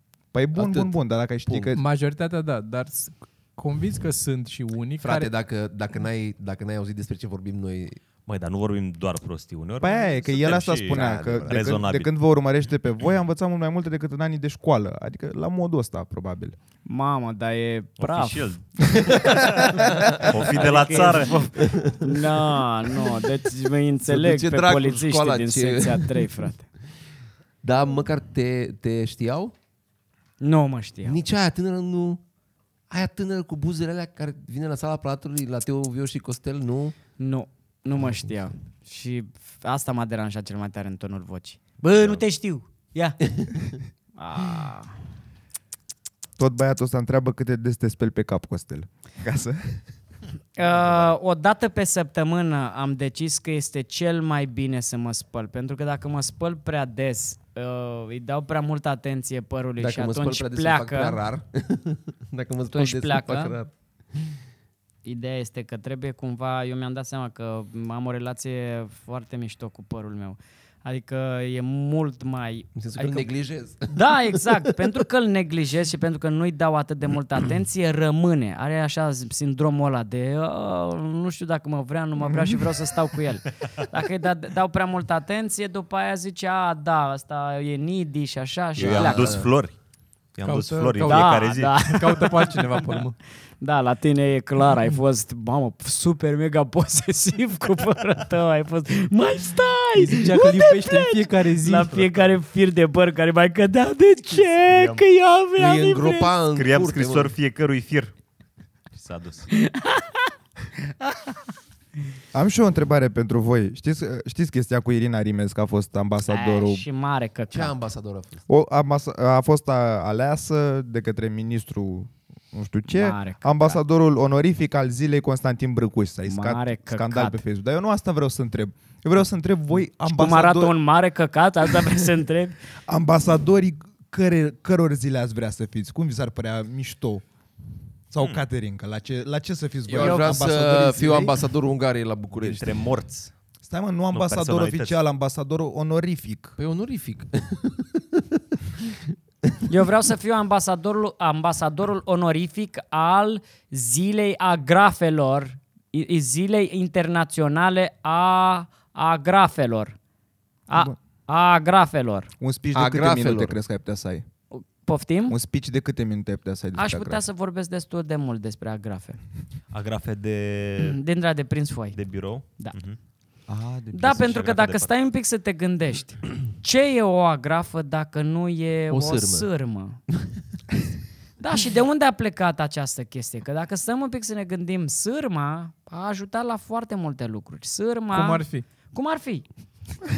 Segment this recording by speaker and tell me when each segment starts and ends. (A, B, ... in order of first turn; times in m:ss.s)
0:00.3-0:01.8 A
0:00.6-0:01.0 B
0:01.4-0:01.7 B
0:01.7-0:05.3 C
0:05.0-0:08.0 B
0:08.3-0:12.1 D
0:09.8-0:16.6 A
0:10.9-0:11.7 B
0:16.9-0:18.5 E
0:18.0-0:21.8 D
0:19.9-0:21.0 B
0:20.2-0:26.7 E
0:21.6-0:22.4 B
0:24.0-0:26.5 B
0:27.6-0:29.5 B
0:30.4-0:31.2 E
0:31.0-0:32.2 B
0:32.9-0:37.0 B
0:37.2-0:43.2 E
0:38.0-0:38.3 B
0:43.4-0:43.8 B
0:44.2-0:45.0 E
0:46.4-0:49.8 A
0:50.6-1:01.2 E
0:59.8-1:04.3 B
1:02.7-1:03.6 E
1:05.0-1:13.3 E
1:12.8-1:14.6 B
1:13.9-1:29.4 E
1:28.8-1:29.8 D
1:28.8-1:29.5 B
1:30.4-1:32.3 D
1:30.4-1:33.1 C
1:31.0-1:33.0 E
1:33.6-1:46.3 E
1:40.0-1:42.1 C
1:44.7-1:45.0 D
1:45.6-1:47.3 B
1:46.5-1:48.1 D
1:48.9-1:49.5 D
1:49.5-1:50.3 E
1:51.0-1:51.4 E
1:52.3-1:56.8 A
1:56.3-1:57.8 E
1:57.5-1:58.4 B
1:58.5-2:10.8 A
2:02.9-2:03.8 E
2:06.3-2:07.4 E
2:10.0-2:12.6 E
2:12.9-2:17.2 A
2:18.1-2:21.4 A
2:19.9-2:22.8 B
2:20.0-2:20.4 E
2:22.4-2:23.3 D
2:23.7-2:26.6 A
2:24.1-2:25.0 D
2:26.6-2:28.2 B
2:28.8-2:29.1 B
2:29.7-2:40.0 E
2:40.7-2:42.3 E
2:42.4-2:44.2 A
2:42.7-2:43.6 B
2:44.5-2:45.4 E
2:45.3-2:47.2 A
2:46.8-2:49.2 E
2:49.7-2:51.0 D
2:50.8-2:52.0 E
2:51.9-2:53.0 D
2:53.5-2:54.3 A
2:53.9-3:00.0 E
2:54.0-2:54.9 D
2:58.9-2:59.5 B
3:01.4-3:09.4 E
3:08.1-3:08.7 C